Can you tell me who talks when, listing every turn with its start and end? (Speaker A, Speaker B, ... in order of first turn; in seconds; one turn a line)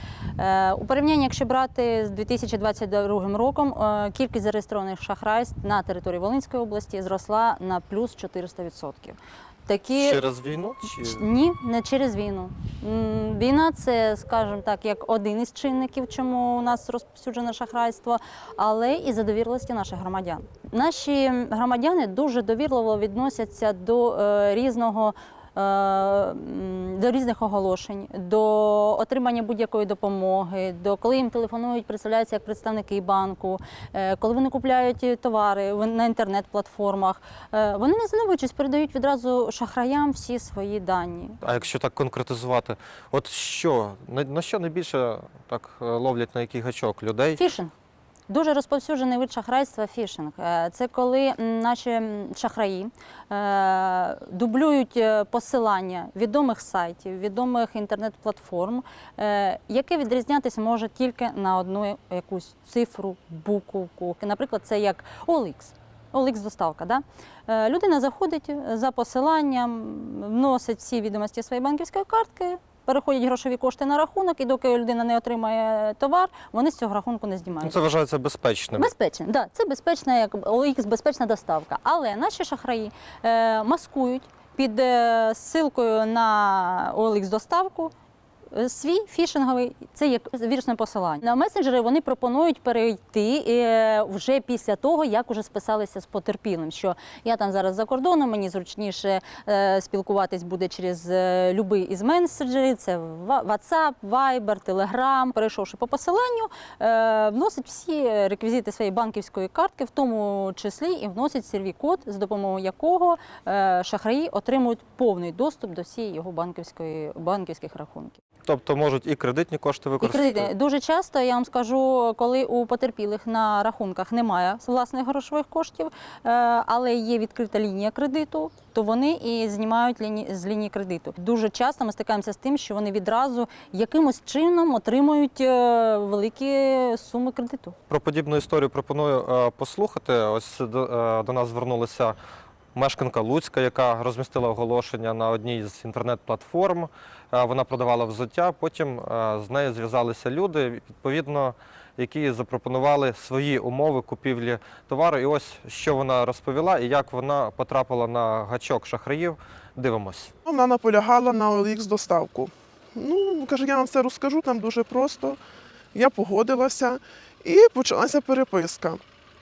Speaker A: 0.4-10.2
Speaker B: 9.9-11.2
Speaker A: 10.8-41.4
Speaker B: 41.4-47.4
Speaker A: 47.4-47.7
Speaker A: 48.3-77.8
Speaker B: 77.6-78.9
Speaker A: 78.8-87.9
Speaker A: 88.5-118.2
Speaker B: 118.5-120.5
Speaker A: 120.0-137.8
Speaker B: 137.9-142.2
Speaker B: 142.8-160.3
Speaker C: 160.4-165.4
Speaker C: 165.9-169.0